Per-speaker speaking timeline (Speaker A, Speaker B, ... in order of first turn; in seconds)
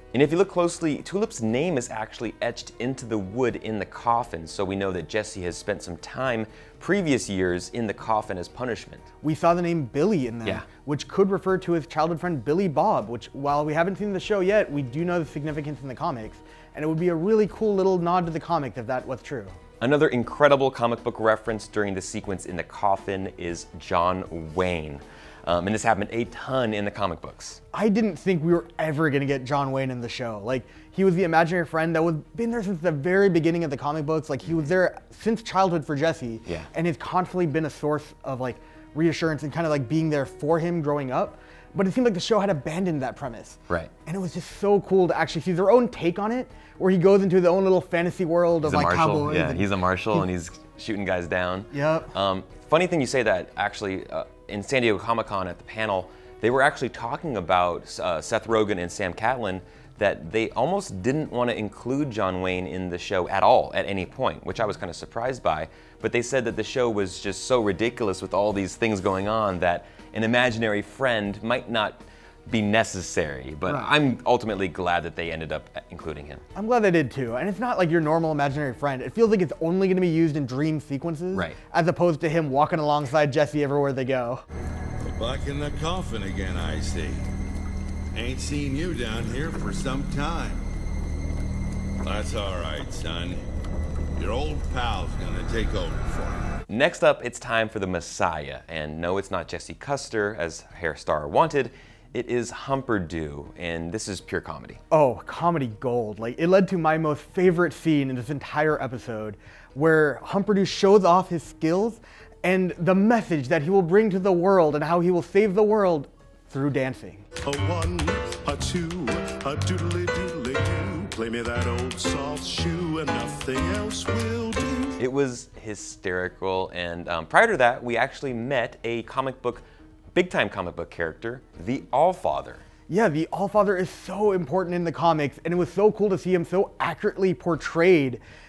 Speaker A: 0.1-9.1, 19.8-27.6, 48.6-76.4, 81.3-81.6, 96.7-104.8, 125.0-132.6
Speaker B: 9.2-19.6, 27.7-49.7, 51.7-52.1, 73.7-73.9, 76.5-84.4, 104.9-117.2, 132.9-138.2
Speaker C: 85.0-87.2, 88.1-90.7, 92.0-93.4, 94.2-96.5
Speaker D: 117.4-125.0